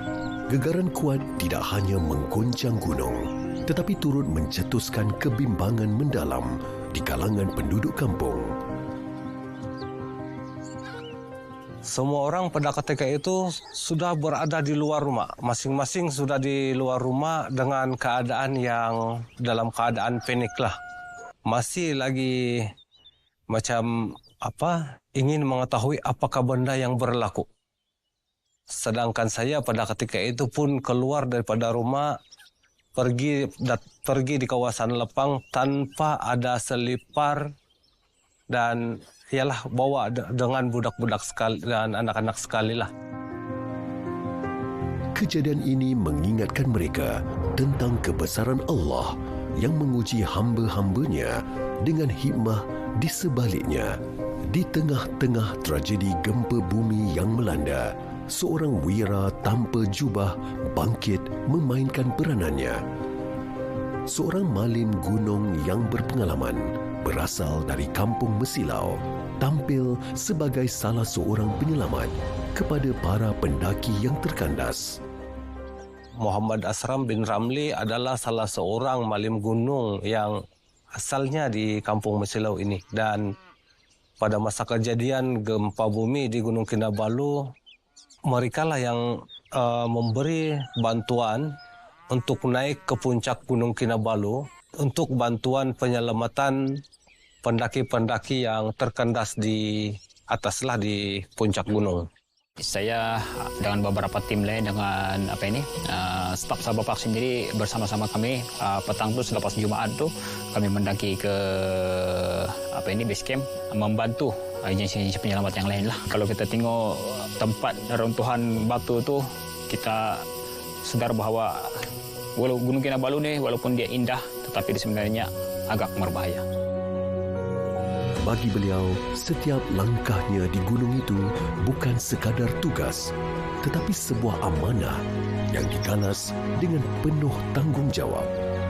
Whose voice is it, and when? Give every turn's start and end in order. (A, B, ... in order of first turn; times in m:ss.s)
0:00.5-0:08.5 A
0:11.9-0:20.8 B
0:21.4-0:22.4 B
0:23.5-0:23.9 B
0:24.4-0:27.5 B
0:28.7-0:32.1 B
0:33.0-0:37.5 B
0:38.5-0:38.8 B
0:39.3-0:42.9 B
0:45.1-1:02.8 A
1:04.0-1:15.0 A
1:16.2-1:20.4 B
1:21.0-1:23.2 B
1:24.2-1:27.4 B
1:28.3-1:31.5 B
1:32.1-1:36.8 B
1:37.4-1:42.1 B
1:42.6-2:00.2 C
2:00.8-2:01.7 C
2:02.4-2:06.4 C
2:08.2-2:18.3 A